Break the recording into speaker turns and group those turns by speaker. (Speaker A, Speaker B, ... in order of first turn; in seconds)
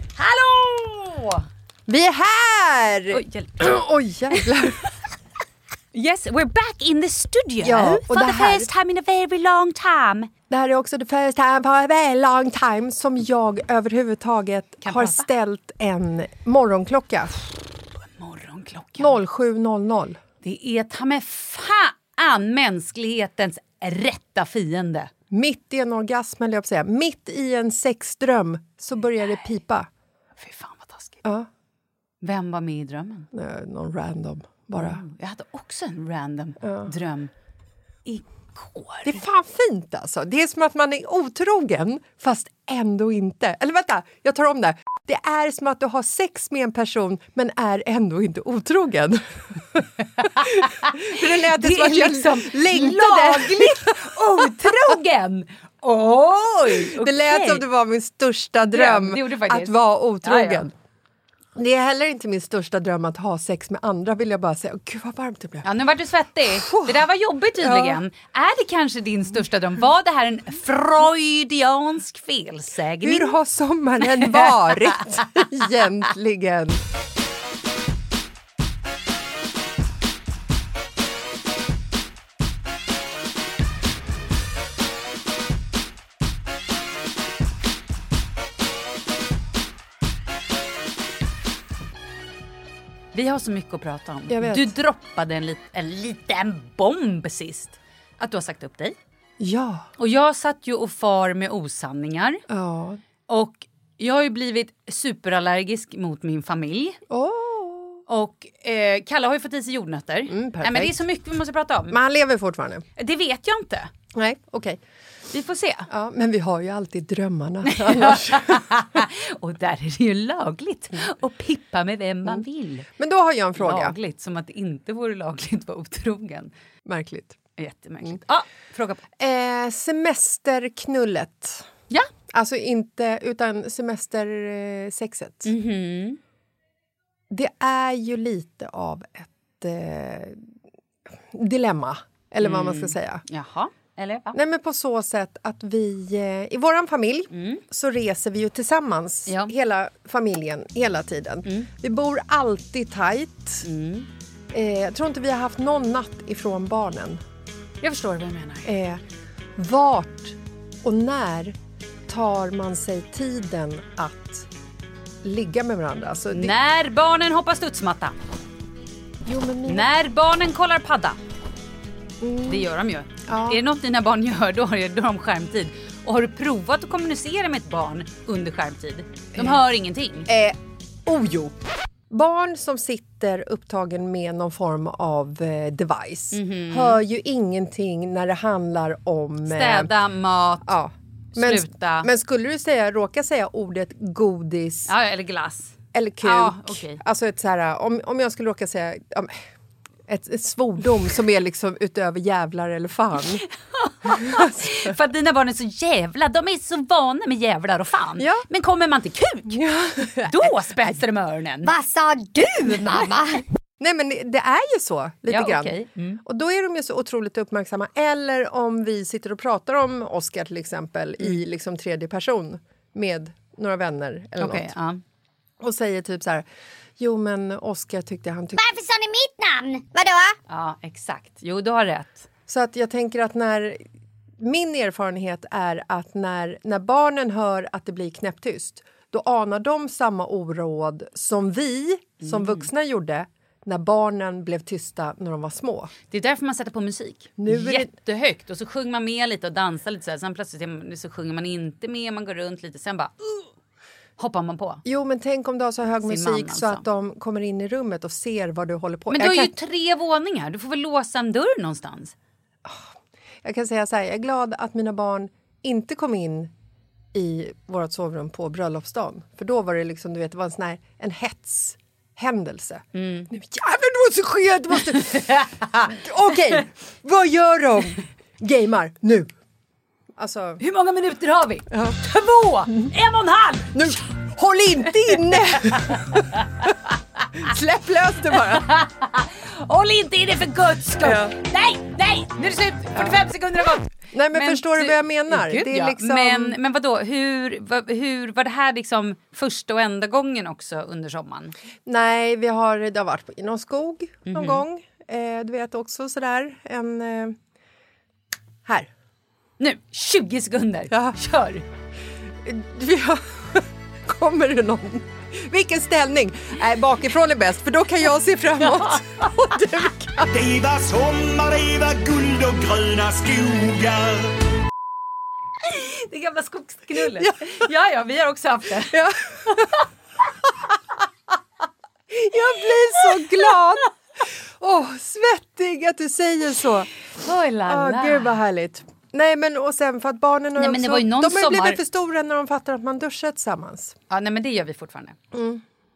Speaker A: 0.1-1.4, 3.1-3.8, 5.9-10.3, 14.8-15.3, 18.2-19.1, 20.4-25.1, 30.4-31.2, 32.2-33.3, 34.8-37.3, 38.0-39.2, 50.4-57.6, 58.6-60.6, 65.6-73.3, 74.1-74.5, 93.1-99.0, 100.0-102.4, 103.3-107.0, 108.1-112.0, 113.0-113.9, 115.3-115.9, 117.7-122.9, 123.6-126.5, 127.6-129.0, 135.4-136.2, 142.4-144.4, 147.3-147.6, 149.3-149.5, 153.6-154.1, 157.8-158.7, 166.3-168.1, 169.7-171.2, 172.4-180.3, 186.3-187.0, 189.4-190.7, 191.3-192.1, 194.9-197.0, 203.7-209.6, 210.2-211.7, 215.3-216.2, 224.4-225.0, 230.5-232.2, 242.2-242.7, 246.1-253.5, 254.2-254.8, 256.0-256.8, 259.1-262.1, 272.9-273.3, 275.0-275.9, 280.6-284.0, 288.4-301.5, 304.3-304.6, 309.6-311.6, 325.6-329.0, 337.2-338.4, 340.6-341.8, 344.1-345.2
Speaker B: 1.9-4.8, 7.6-8.7, 10.5-17.4, 19.0-20.2, 25.3-29.9, 33.3-35.0, 36.6-36.9, 39.0-54.7, 56.7-60.7, 61.5-65.6, 66.5-67.1, 67.6-68.0, 73.0-76.8, 94.3-94.7, 99.4-99.9, 102.5-103.0, 107.1-108.0, 110.3-111.0, 111.9-112.8, 114.1-114.8, 115.9-118.6, 123.0-123.9, 126.8-127.4, 129.2-131.7, 132.3-135.5, 137.3-140.4, 141.3-143.2, 144.3-153.6, 154.5-157.2, 158.6-159.0, 159.6-161.5, 162.1-164.5, 165.2-166.5, 169.2-169.9, 172.2-172.7, 173.3-173.6, 180.3-181.5, 182.1-189.9, 190.6-194.9, 195.9-199.3, 200.1-203.4, 204.1-204.7, 208.2-208.4, 209.5-210.6, 213.8-224.7, 225.6-226.4, 227.0-228.6, 232.5-233.8, 234.4-245.9, 247.4-247.9, 254.8-259.5, 263.4-266.5, 267.1-279.3, 280.2-280.6, 281.7-282.0, 283.7-286.4, 287.4-288.6, 291.0-291.3, 294.1-296.6, 301.9-307.4, 310.9-311.2, 312.4-320.3, 327.1-327.4, 328.9-329.7, 332.1-336.9, 337.7-343.9, 345.3-345.6
Speaker C: 211.6-213.4, 228.5-230.3
Speaker D: 320.3-324.4